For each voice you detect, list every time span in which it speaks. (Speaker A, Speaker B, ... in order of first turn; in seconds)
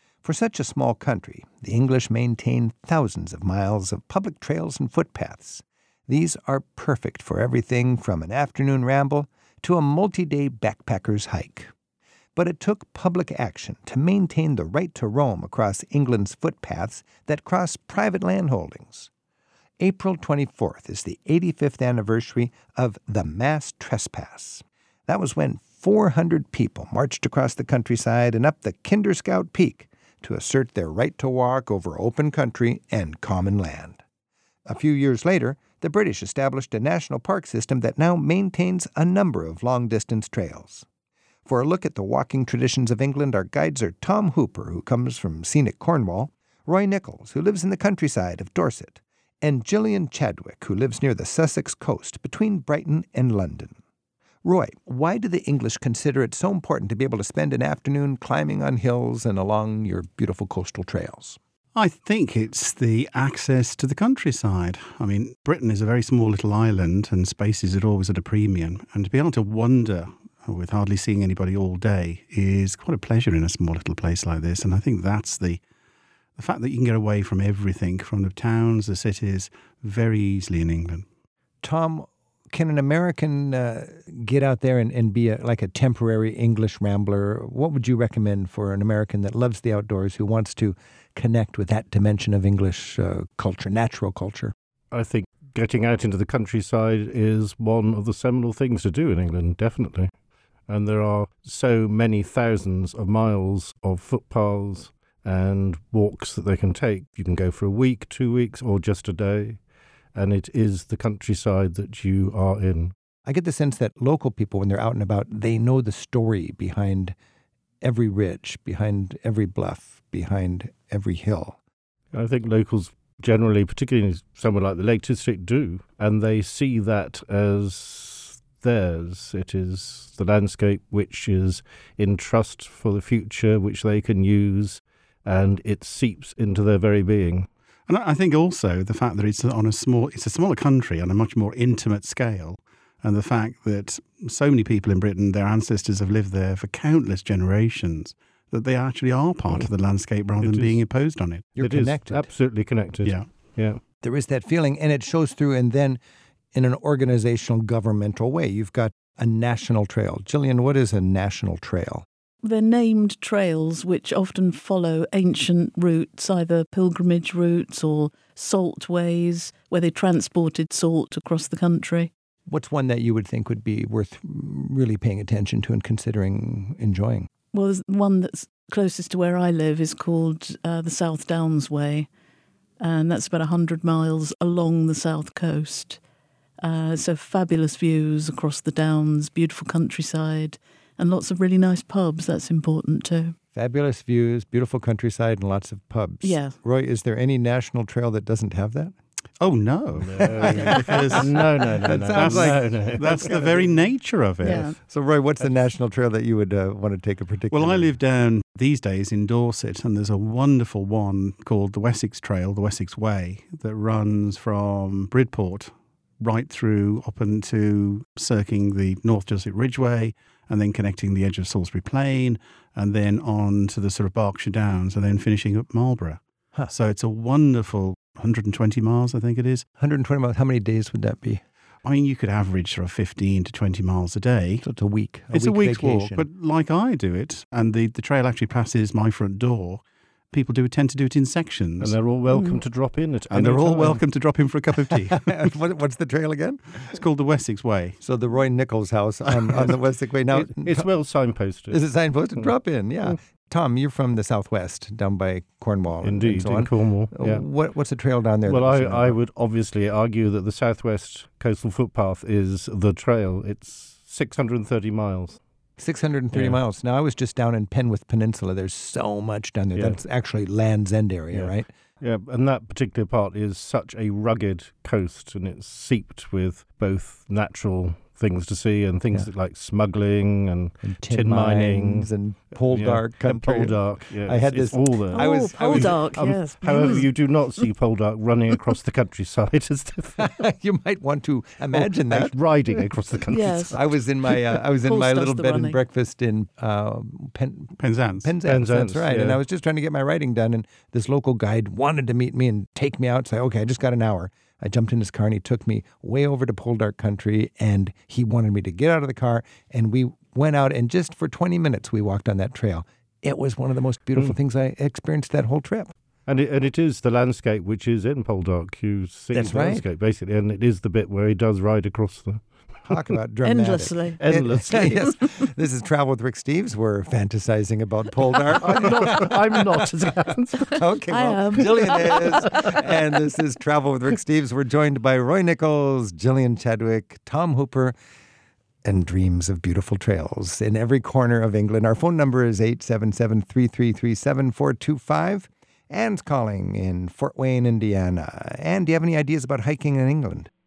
Speaker A: 0.2-11.7, 12.3-19.1, 19.8-34.0, 34.7-40.9, 41.5-53.8, 54.4-61.4, 81.6-94.5, 113.2-117.1, 117.8-121.6, 151.6-152.3, 154.0-156.0, 156.5-162.0, 172.5-177.3, 193.5-198.9, 200.2-203.7, 204.6-208.0, 229.8-231.4, 234.6-236.2, 244.8-247.0, 248.0-250.9, 251.7-259.2, 265.8-271.7, 280.8-286.2, 290.2-292.3, 293.7-315.9, 319.3-319.8, 322.9-329.4, 330.7-337.9, 338.8-350.5
Speaker B: 61.7-75.6, 76.4-81.0, 137.9-151.6, 199.4-201.3, 202.1-204.7, 207.5-229.6, 231.8-234.6, 235.3-241.9, 243.3-245.5, 246.9-248.0, 297.8-298.4
Speaker C: 94.9-100.1, 100.7-109.6, 110.1-112.9, 122.1-137.5, 150.4-150.8, 151.6-153.8, 200.1-203.3, 241.8-244.0, 250.3-251.8, 256.0-257.4, 258.4-265.4, 266.3-266.6, 271.3-282.1, 282.6-290.3, 291.7-293.8, 298.4-299.4, 316.2-322.4, 324.2-325.1, 328.5-330.8
Speaker D: 162.4-172.1, 177.5-182.1, 182.8-186.0, 186.6-193.3, 196.2-196.6, 204.4-204.8, 242.3-242.6, 285.1-287.3, 293.3-293.8, 294.8-295.8, 323.4-324.2, 331.1-332.6